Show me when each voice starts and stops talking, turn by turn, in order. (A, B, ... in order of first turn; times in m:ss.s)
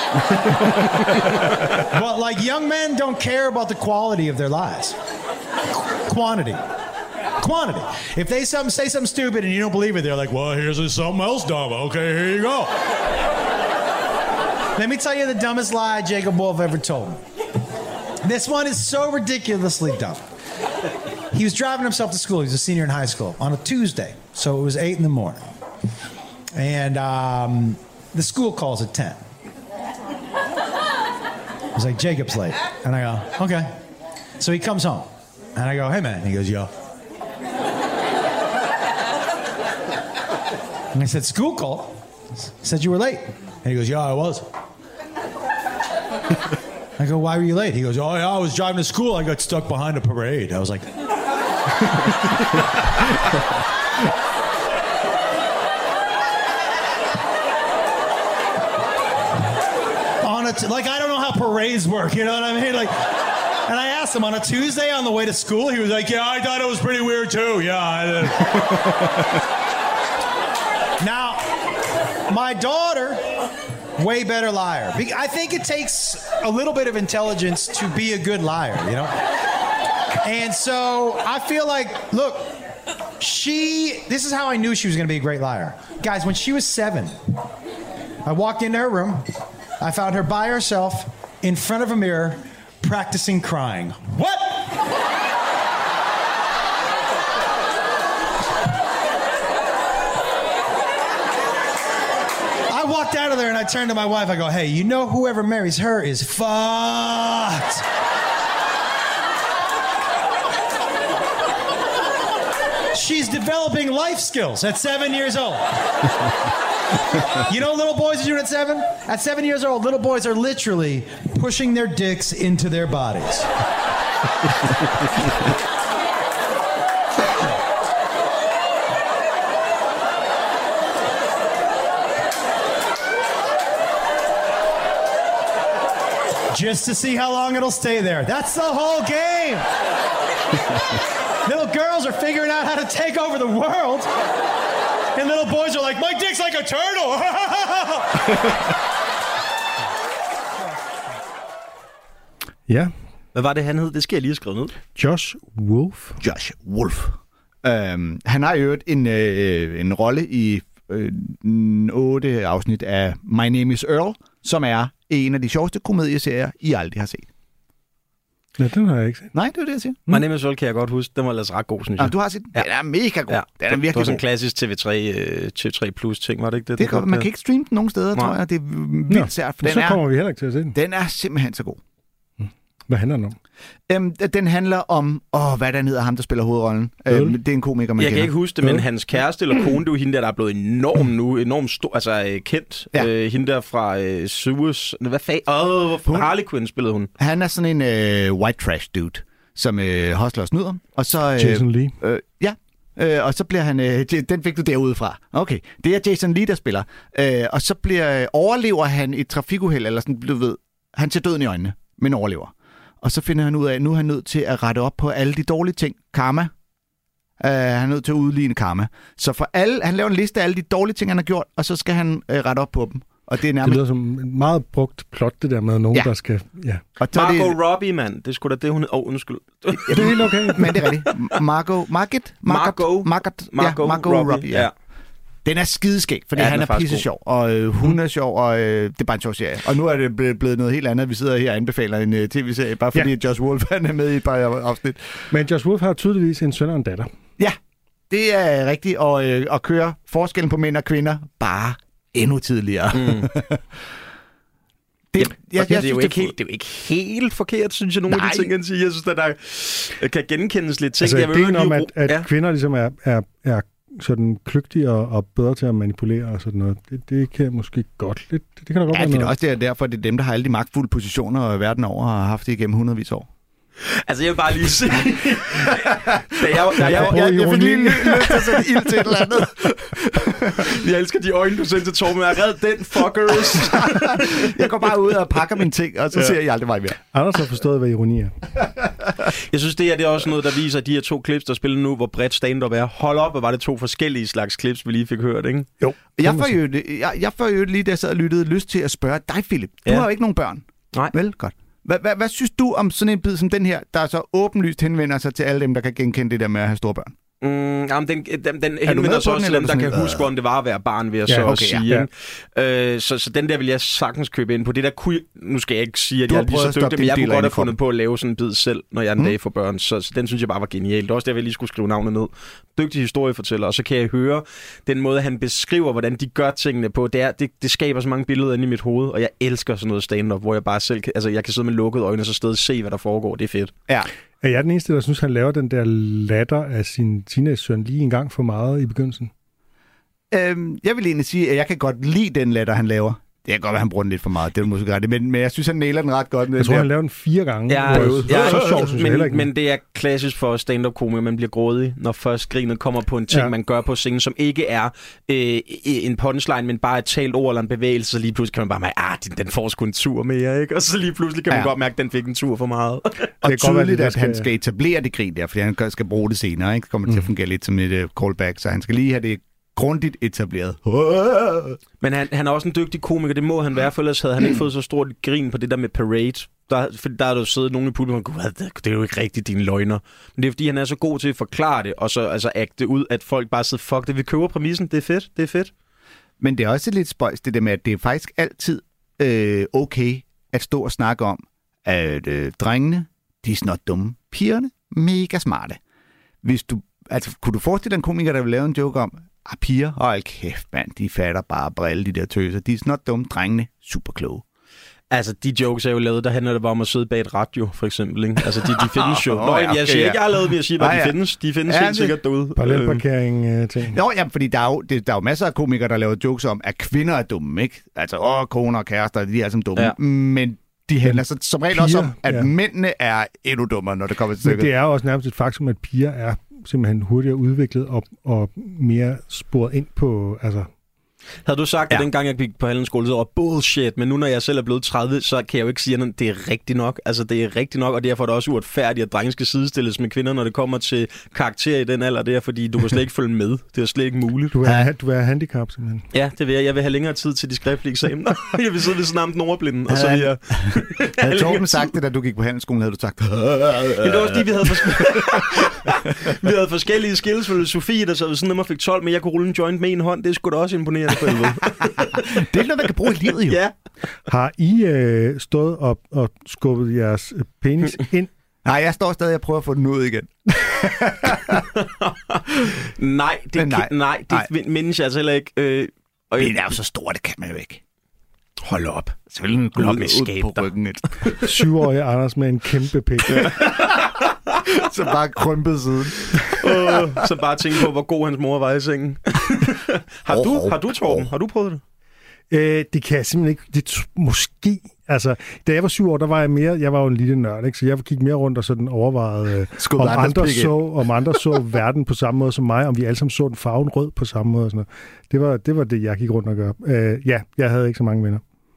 0:00.6-0:05.0 A
0:06.1-0:06.6 A
0:07.4-0:12.8 A
0:14.8-0:17.2 A
0:18.2-0:20.3 A
0:21.3-0:25.6 A
0:26.6-0:29.2 A
0:31.8-0:33.7 A
0:34.4-0:36.7 A
0:40.9-0:44.5 A
0:47.0-0:50.9 A
1:00.2-1:09.1 A
1:11.0-1:11.4 A
1:12.3-1:13.3 A
1:14.0-1:19.2 A
1:20.2-1:22.6 A
1:23.2-1:27.2 A
1:28.2-1:29.2 A
1:29.8-1:34.8 A
1:42.7-1:47.8 A
1:52.9-1:55.7 A
1:57.4-2:03.5 A
2:16.5-2:19.7 A
2:21.4-2:24.1 A
2:25.2-2:28.3 A
2:32.7-2:32.9 B
2:33.4-2:34.7 C
2:35.0-2:36.2 B
2:36.2-2:47.3 D
2:48.6-2:49.3 B
2:49.3-2:50.2 D
2:50.1-2:52.7 C
2:52.0-2:54.2 D
2:53.3-2:57.3 C
2:56.8-3:00.0 D
2:59.1-3:00.8 B
3:00.7-3:01.8 D
3:02.4-3:03.4 B
3:03.9-3:08.3 D
3:07.1-3:07.4 B
3:08.0-3:17.1 C
3:16.1-3:16.3 D
3:17.2-3:36.5 D
3:21.4-3:22.0 B
3:37.4-3:43.8 D
3:43.6-3:46.8 B
3:47.0-3:47.6 D
3:47.1-3:50.3 C
3:49.9-3:54.7 D
3:49.9-3:50.9 B
3:52.5-3:54.7 C
3:55.4-4:05.3 D
3:56.4-3:57.1 C
4:05.3-4:07.1 B
4:08.1-4:13.6 D
4:12.9-4:13.3 C
4:15.1-4:16.4 D
4:15.6-4:22.3 C
4:18.1-4:18.5 D
4:21.0-4:29.3 B
4:28.9-4:33.3 D
4:33.9-4:37.7 C
4:35.7-4:36.2 D
4:36.7-4:40.8 D
4:36.8-4:38.5 B
4:40.6-4:44.1 C
4:43.4-4:47.0 D
4:47.1-4:48.4 B
4:49.5-4:55.7 C
4:55.8-4:56.5 B
4:56.2-5:07.2 D
5:07.4-5:33.7 C
5:08.8-5:10.3 D
5:11.3-5:12.1 B
5:11.4-5:11.9 D
5:16.3-5:17.8 D
5:34.4-5:39.3 B
5:40.3-5:46.9 D
5:46.6-5:49.5 B
5:47.7-6:03.3 C
5:47.8-5:48.9 D
6:03.4-6:11.8 D
6:03.4-6:04.5 B
6:12.0-6:25.7 C
6:26.4-6:35.8 D
6:36.4-6:44.4 D
6:45.1-6:53.0 C
6:48.8-6:52.2 D
6:52.6-6:54.0 B
6:53.9-7:04.7 D
7:01.7-7:02.5 B
7:04.4-7:10.7 B
7:11.5-7:24.5 C
7:24.5-7:26.0 B
7:24.6-7:24.9 D
7:26.1-7:31.9 C
7:29.9-7:35.6 D
7:34.0-7:42.3 C
7:42.0-7:43.6 D
7:43.5-7:43.7 C
7:44.3-7:48.3 B
7:48.6-7:51.6 D
7:51.5-7:56.5 C
7:53.6-7:54.5 D
7:56.4-7:57.8 D
7:58.6-7:59.2 C
7:59.3-8:01.3 D
7:59.8-8:01.4 C
8:01.4-8:03.7 B
8:04.7-8:06.9 D
8:06.6-8:11.8 C
8:10.3-8:11.3 D
8:12.5-8:28.4 B
8:19.8-8:20.8 D